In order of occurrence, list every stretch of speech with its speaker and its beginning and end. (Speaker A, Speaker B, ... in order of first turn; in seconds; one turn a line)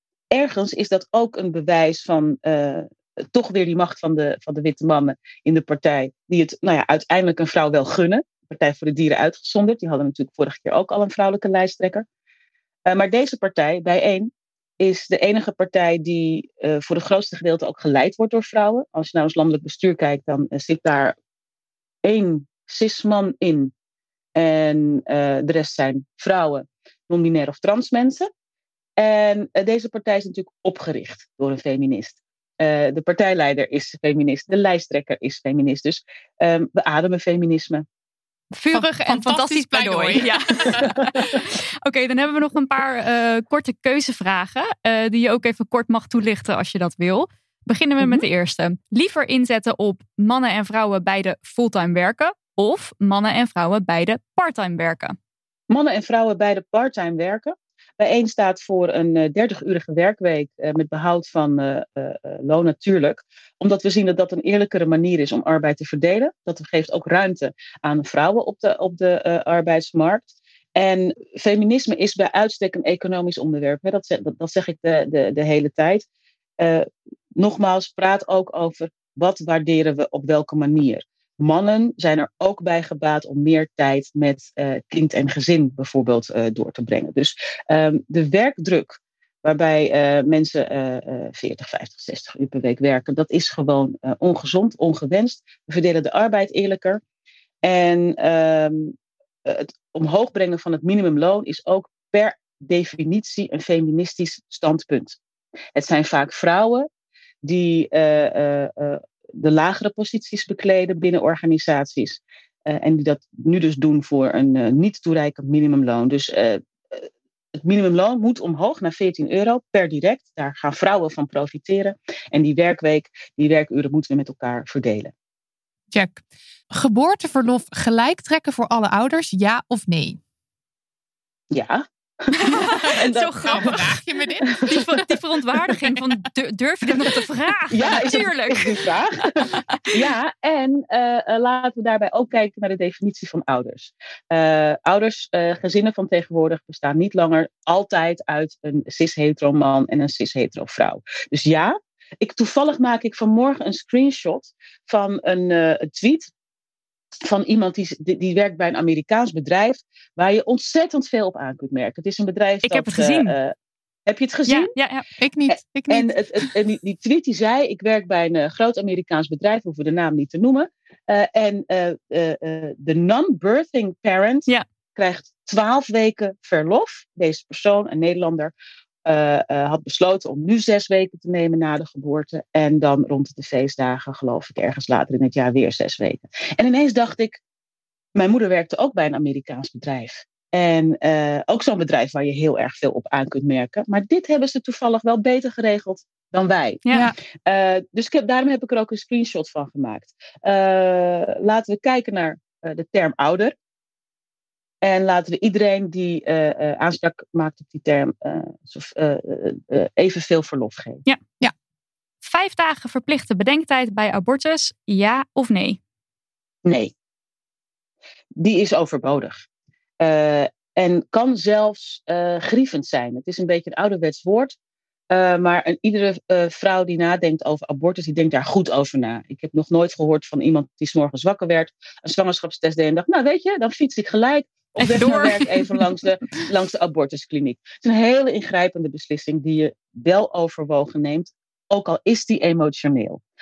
Speaker A: 0.3-12.1
Speaker A: 12.9-21.1
Speaker A: 22.0-23.7
Speaker A: 24.4-28.3
Speaker A: 29.0-37.8
Speaker B: 38.5-55.2
Speaker C: 38.7-40.9
Speaker A: 55.7-76.0
Speaker A: 76.6-76.8
Speaker A: 77.4-97.0
Speaker A: 97.6-105.2
Speaker A: 105.7-106.9
Speaker A: 107.4-125.1
Speaker C: 125.9-130.2
Speaker A: 131.5-133.8
Speaker B: 132.3-133.9
Speaker C: 133.4-135.2
Speaker A: 134.5-134.8
Speaker B: 134.7-139.9
Speaker A: 137.7-139.3
Speaker A: 139.9-156.3
Speaker A: 157.2-163.5
Speaker B: 162.6-163.3
Speaker A: 164.1-164.7
Speaker B: 164.5-165.0
Speaker C: 165.2-166.1
Speaker A: 165.5-178.5
Speaker A: 179.1-187.4
Speaker A: 188.2-196.8
Speaker B: 196.8-197.1
Speaker A: 197.4-203.5
Speaker A: 204.8-211.0
Speaker B: 212.2-215.8
Speaker A: 216.6-216.9
Speaker A: 218.4-219.4
Speaker A: 220.0-224.5
Speaker A: 225.1-243.2
Speaker B: 234.8-235.7